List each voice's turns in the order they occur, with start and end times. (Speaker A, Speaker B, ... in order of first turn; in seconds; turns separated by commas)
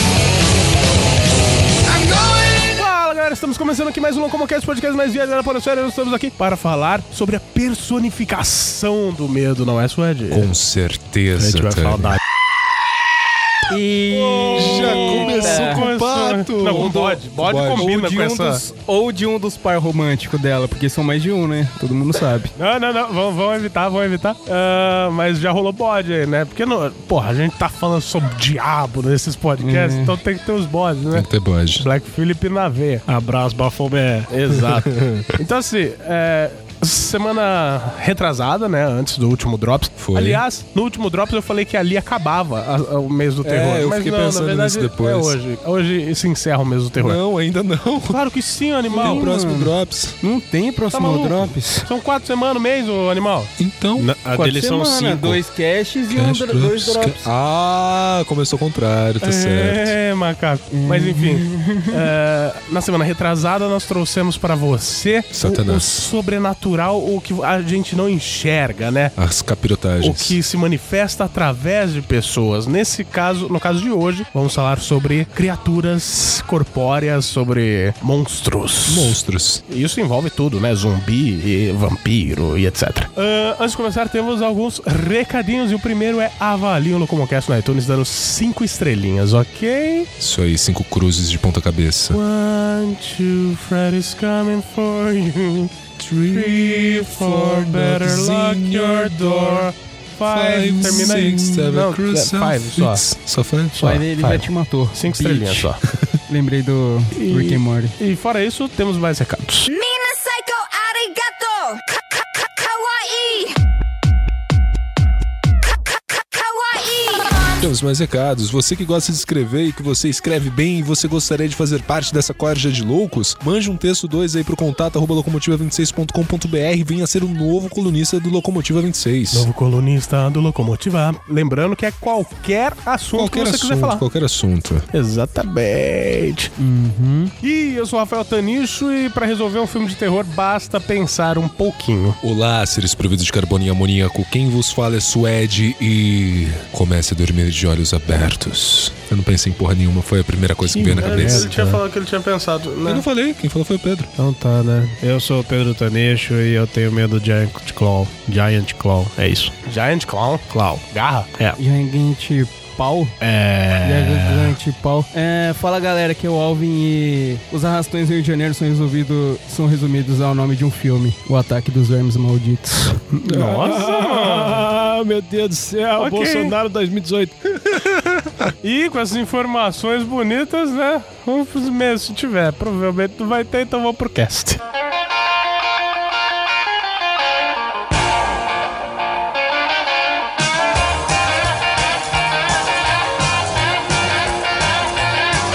Speaker A: 1.9-10.5, Speaker B: 10.3-12.2, Speaker C: 11.4-12.2, Speaker D: 13.7-15.9, Speaker A: 14.1-18.6, Speaker B: 14.5-17.9, Speaker D: 16.8-17.2, Speaker D: 17.8-22.5, Speaker A: 22.6-33.0, Speaker D: 29.6-30.2, Speaker B: 31.1-31.9, Speaker C: 33.1-34.3, Speaker A: 34.3-47.2, Speaker B: 34.5-35.3, Speaker B: 40.0-40.4, Speaker B: 43.4-45.4, Speaker B: 47.0-48.2, Speaker A: 48.1-49.3, Speaker D: 48.9-51.9, Speaker B: 48.9-50.2, Speaker A: 50.9-53.5, Speaker B: 53.6-54.1, Speaker C: 54.0-55.4, Speaker D: 54.3-57.3, Speaker B: 56.1-60.0, Speaker A: 59.2-69.2, Speaker D: 60.8-62.1, Speaker B: 65.3-66.1, Speaker B: 69.2-70.4, Speaker A: 70.0-90.1, Speaker B: 78.9-79.6, Speaker B: 90.2-92.2, Speaker A: 92.1-95.7, Speaker B: 96.0-99.7, Speaker A: 96.3-103.0, Speaker B: 100.2-104.4, Speaker D: 103.8-105.7, Speaker A: 103.8-105.8, Speaker D: 106.3-108.0, Speaker A: 107.1-109.7, Speaker E: 109.7-113.5, Speaker E: 116.2-117.6, Speaker B: 117.6-129.5, Speaker A: 129.3-134.0, Speaker B: 133.1-134.8, Speaker A: 134.9-136.5, Speaker D: 136.6-137.3, Speaker A: 137.4-142.2, Speaker B: 142.2-151.8, Speaker A: 150.7-153.1, Speaker C: 151.1-151.4, Speaker B: 152.8-154.1, Speaker C: 154.2-159.5, Speaker A: 154.4-154.9, Speaker A: 159.7-161.3, Speaker D: 161.6-163.2, Speaker A: 163.2-164.6, Speaker D: 163.8-173.0, Speaker A: 173.1-174.7, Speaker C: 173.3-177.3, Speaker A: 176.0-176.6, Speaker B: 177.7-178.4, Speaker A: 178.6-184.6